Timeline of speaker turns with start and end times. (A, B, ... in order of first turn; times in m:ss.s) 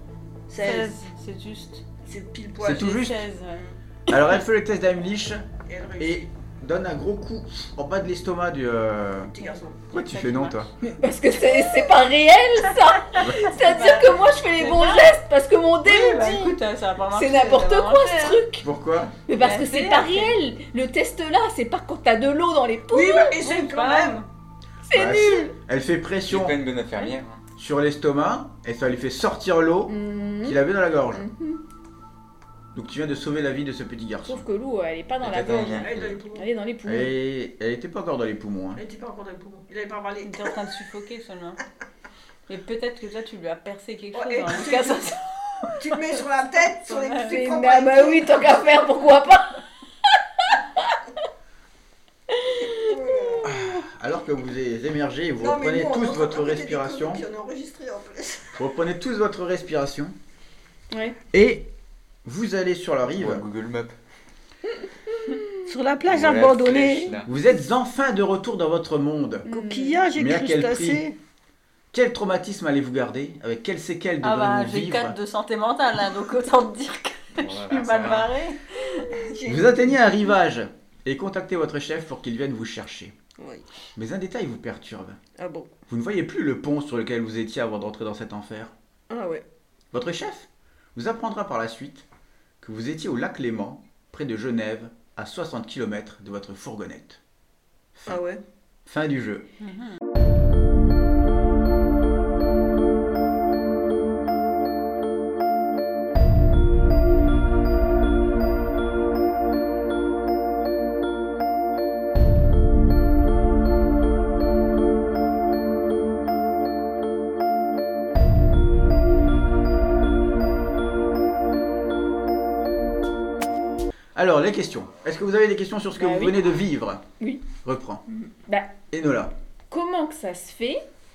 0:00.5-0:01.0 A
0:00.6-0:01.8 B
0:02.0-0:02.9 A
0:02.6-0:03.2 C
0:02.6-0:03.6 B
0:04.1-0:05.5 C
0:05.7-0:06.3 A
0:06.0-0:09.4 C
0:09.3-0:09.8 A
0:09.4-0:10.7 B
0:09.9-0:10.7 C
0:10.8-0:16.6 D
0:13.2-0:15.2 B
0:13.2-0:13.5 C
0:15.8-0:18.4 B
0:17.1-0:18.7 D
0:18.6-0:19.2 C
0:19.3-0:23.4 D
0:19.4-0:20.4 B
0:22.9-0:24.2 A
0:23.4-0:24.3 B
0:24.8-0:25.6 D
0:24.9-0:26.6 C
0:26.3-0:27.4 E
0:27.6-0:31.3 C
0:29.9-0:30.6 D
0:31.1-0:31.6 D
0:32.7-0:34.4 C
0:34.2-0:37.1 D
0:35.2-0:36.2 E
0:35.8-0:36.5 A
0:36.8-0:38.8 C
0:38.8-0:40.5 A
0:40.2-0:41.6 B
0:42.5-0:45.2 B
0:44.1-0:45.1 A
0:44.6-0:45.2 D
0:45.8-0:48.6 A
0:46.9-0:47.4 B
0:47.2-0:51.0 D
0:52.3-0:53.6 D
0:52.6-0:53.5 A
0:53.4-0:57.2 C
0:55.4-0:58.6 A
0:58.6-1:00.1 C
1:00.9-1:01.2 D
1:01.3-1:01.7 C
1:02.2-1:03.4 C
1:03.1-1:03.9 E
1:05.7-1:07.2 A
1:06.1-1:07.3 E
1:07.3-1:09.5 C
1:09.4-1:10.0 D
1:09.5-1:11.2 A
1:10.2-1:11.0 C
1:11.9-1:15.2 C
1:14.2-1:19.2 B
1:17.4-1:18.3 E
1:19.2-1:20.0 A
1:19.5-1:23.2 C
1:23.4-1:23.7 A
1:24.0-1:25.2 C
1:25.4-1:25.7 A
1:25.9-1:28.7 C
1:29.1-1:29.4 A
1:29.9-1:32.1 C
1:32.6-1:37.2 C
1:38.0-1:38.2 C
1:38.1-1:38.4 A
1:38.9-1:39.5 C
1:39.6-1:40.0 B
2:04.2-2:08.0 C
2:06.0-2:06.4 D
2:07.2-2:07.5 D
2:08.1-2:08.8 D
2:08.9-2:09.3 C
2:09.7-2:10.8 D